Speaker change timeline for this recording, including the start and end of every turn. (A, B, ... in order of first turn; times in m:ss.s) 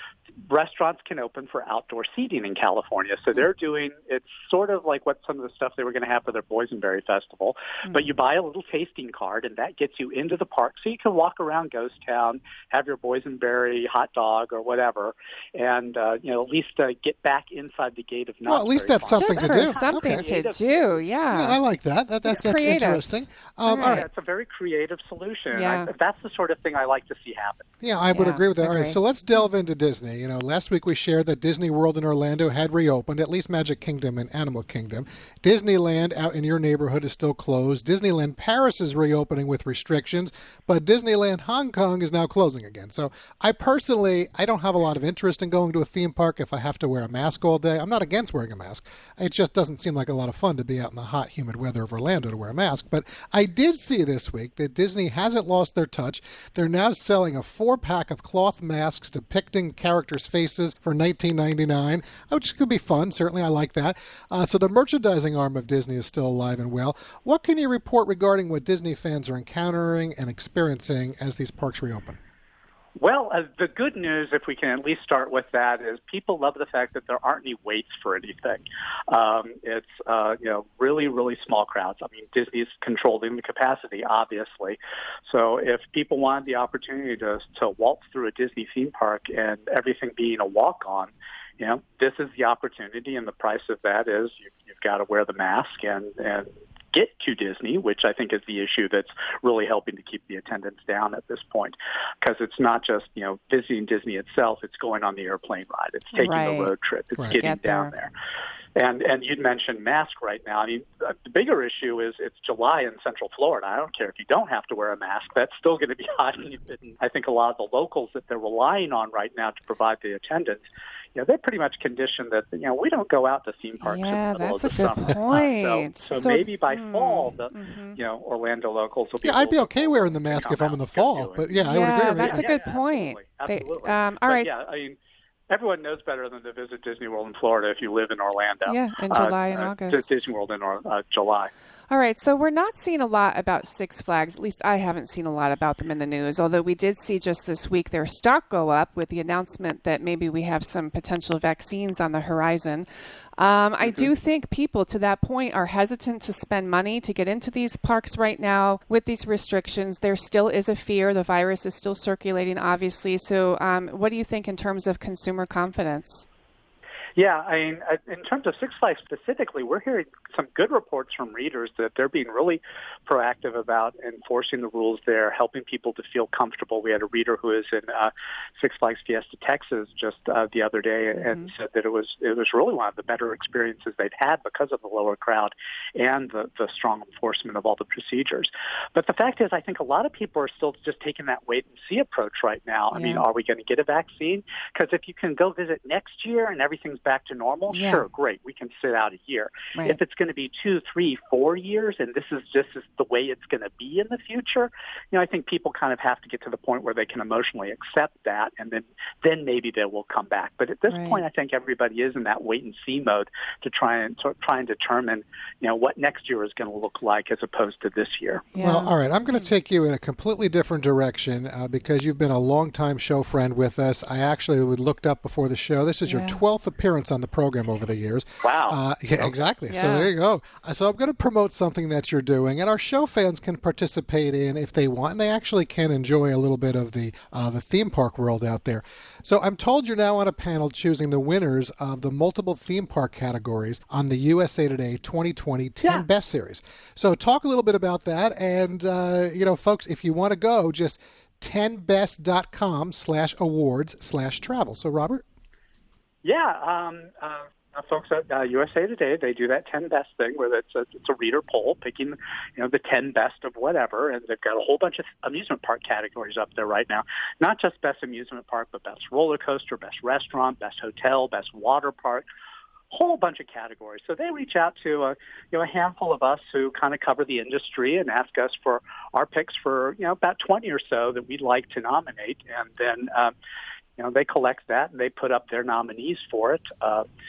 0:00.5-0:21.1 A
0:18.4-0:20.2 B
0:19.1-0:21.6 C
0:21.3-0:24.0 B
0:22.3-0:23.1 C
0:23.6-0:24.0 C
0:23.7-0:27.7 A
0:25.5-0:25.9 C
0:27.8-1:12.2 B
0:28.1-0:29.0 C
1:13.0-1:48.1 A
1:46.1-1:46.7 C
1:47.3-1:47.9 C
1:48.8-2:00.6 A
2:01.1-2:15.0 A
2:03.8-2:08.0 C
2:09.2-2:12.5 B
2:11.6-2:14.5 C
2:15.5-2:21.5 A
2:18.6-2:20.1 C
2:21.9-2:32.9 C
2:33.4-2:46.2 C
2:33.8-2:34.1 A
2:47.2-3:38.5 A
3:01.2-3:01.5 C
3:12.9-3:13.2 C
3:17.7-3:18.0 C
3:30.9-3:31.2 C
3:38.5-3:39.5 C
3:38.6-4:15.2 B
3:46.1-3:46.4 C
3:48.4-3:48.8 A
3:49.7-3:50.1 C
4:16.2-4:32.2 A
4:32.9-4:43.3 A
4:44.0-4:47.0 A